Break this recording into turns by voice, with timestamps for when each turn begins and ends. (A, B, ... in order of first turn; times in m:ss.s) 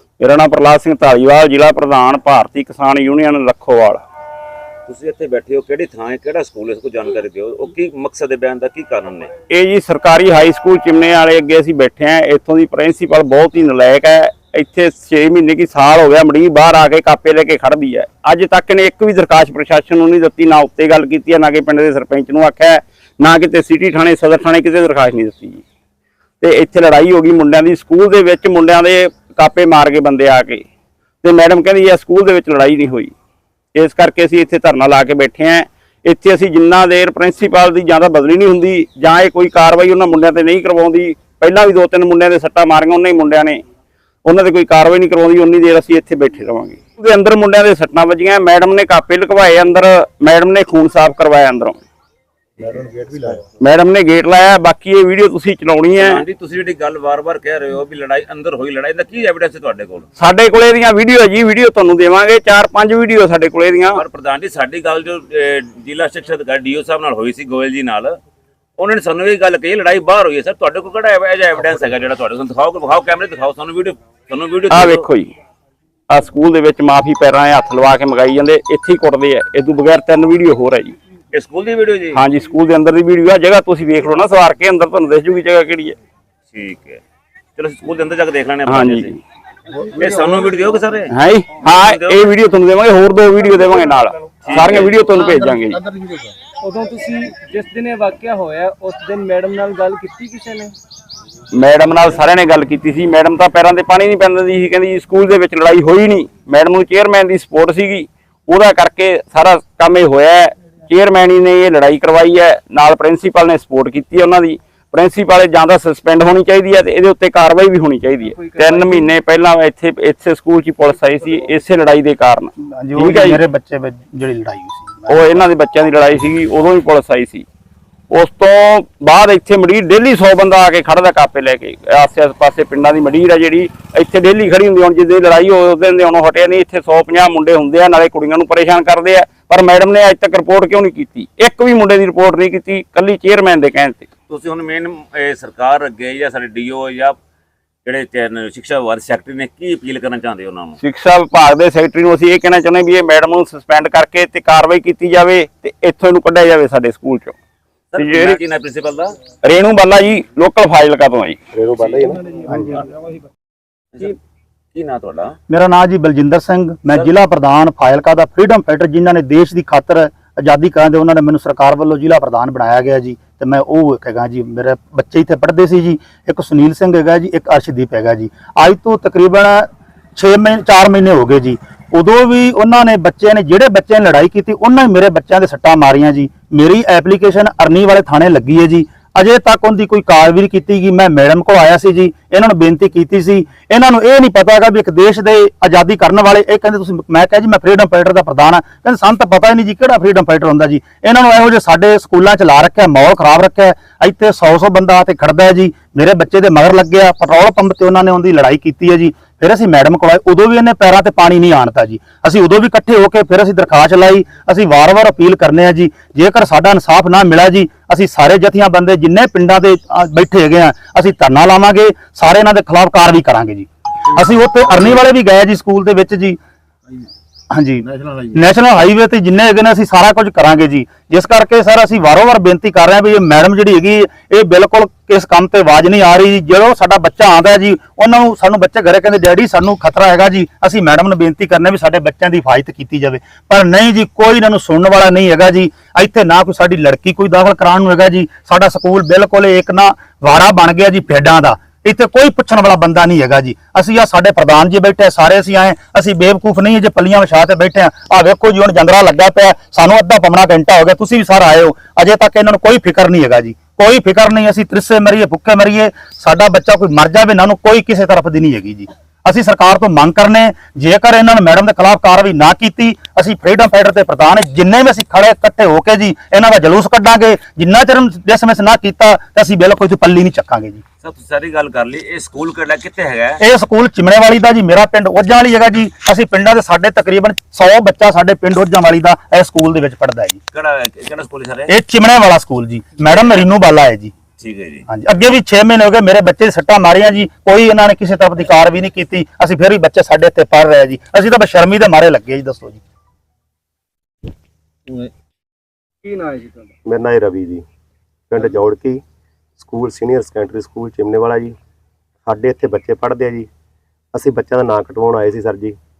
0:00.2-0:04.0 A
0:04.8-0:09.3 B
0:09.5-0:25.6 A
0:26.4-0:30.6 A
0:31.2-0:33.1 A
0:33.7-0:43.6 A
0:44.2-0:51.8 A
0:53.6-0:56.2 A
0:55.9-1:00.1 B
1:00.2-1:04.0 A
1:03.9-1:08.2 B
1:08.8-1:15.1 B
1:14.7-1:15.3 A
1:16.1-1:20.9 A
1:21.3-1:22.2 B
1:22.2-1:26.0 A
1:26.5-1:27.0 B
1:27.6-1:29.2 B
1:28.7-1:29.1 A
1:29.8-1:32.3 B
1:31.2-1:35.8 A
1:34.4-1:35.0 B
1:36.6-1:40.7 C
1:41.5-2:03.3 A
1:58.2-1:59.1 C
2:02.6-2:05.5 D
2:05.1-2:07.4 A
2:08.1-2:24.1 A
2:24.3-2:27.2 B
2:27.8-2:30.8 B
2:30.8-2:37.4 A
2:37.9-2:39.2 B
2:38.0-2:38.4 A
2:39.5-2:41.4 A
2:41.5-2:42.5 E
2:42.5-2:42.8 D
2:44.7-2:45.3 B
2:45.5-3:46.4 D
3:47.5-4:40.8 D
4:41.0-4:43.4 B
4:43.4-4:50.4 D
4:50.5-4:51.7 B
4:51.7-4:54.1 D
4:53.0-4:53.4 B
4:54.4-4:54.8 B
4:54.9-5:02.8 D
5:06.0-5:06.7 C
5:06.8-5:07.6 E
5:08.3-5:09.0 E
5:09.6-5:11.6 E
5:12.2-5:13.5 E
5:14.1-5:15.8 E